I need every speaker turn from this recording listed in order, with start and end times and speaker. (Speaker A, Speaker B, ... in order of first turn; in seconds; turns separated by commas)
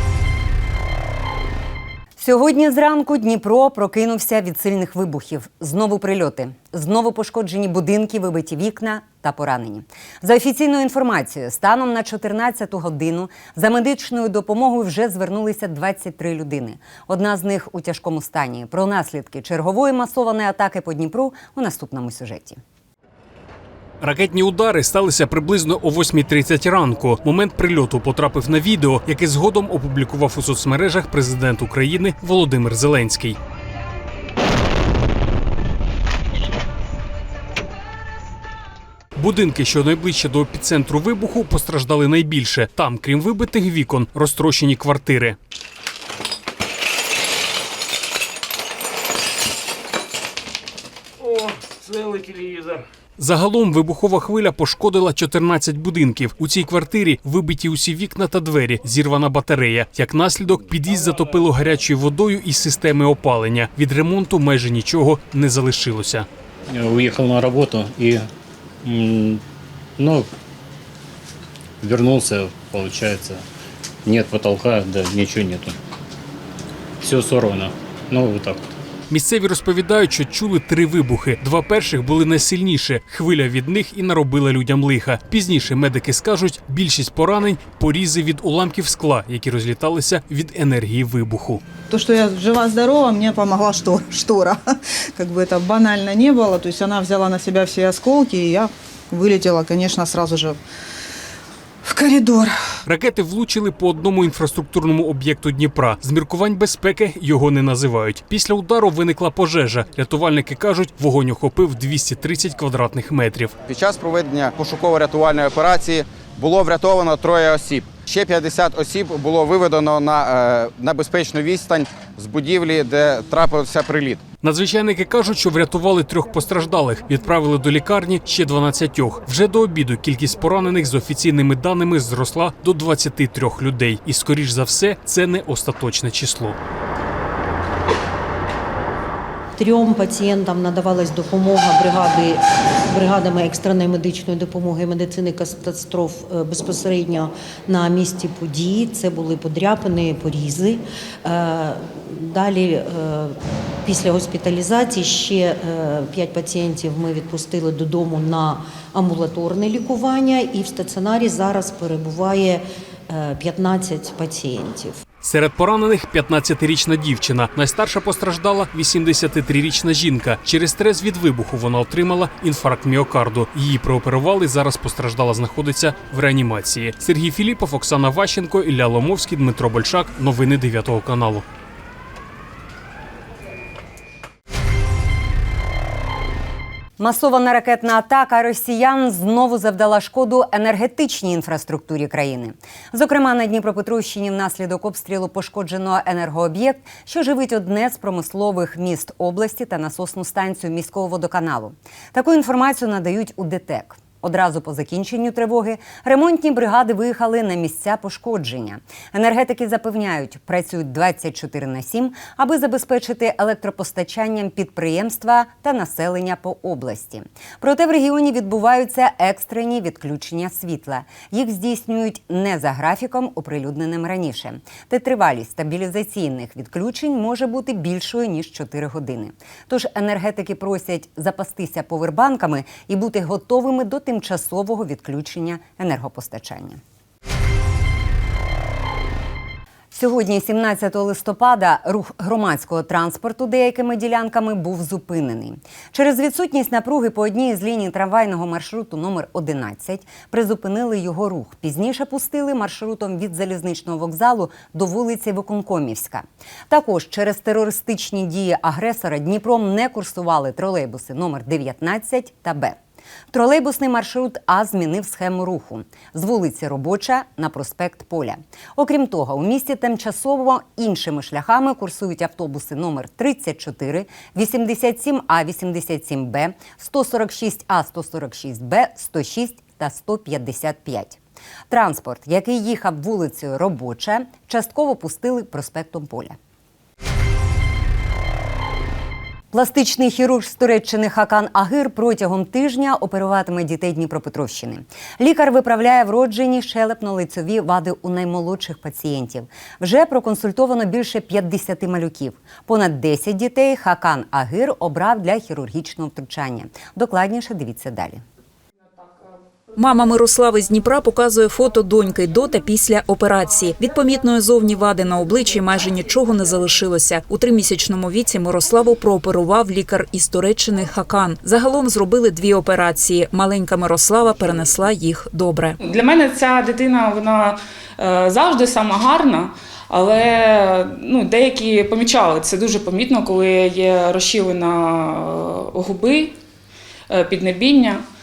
Speaker A: 2.2-22.6, Speaker B: 24.0-33.4, Speaker B: 39.2-45.4, Speaker B: 53.2-66.3, Speaker C: 66.7-68.3, Speaker C: 68.8-69.4, Speaker C: 70.0-70.3, Speaker C: 71.8-73.5, Speaker C: 74.0-75.8, Speaker C: 77.0-78.7, Speaker B: 79.1-91.6, Speaker D: 91.9-94.6, Speaker D: 95.2-100.6, Speaker D: 101.9-102.5, Speaker B: 102.9-113.5, Speaker E: 113.7-124.2, Speaker B: 124.4-136.6, Speaker F: 139.6-165.0, Speaker B: 165.2-181.4, Speaker A: 187.0-236.8, Speaker A: 239.9-262.8, Speaker A: 263.3-281.2, Speaker A: 281.7-286.4, Speaker A: 289.5-308.2, Speaker G: 309.8-325.8, Speaker H: 325.8-336.4, Speaker H: 337.1-338.0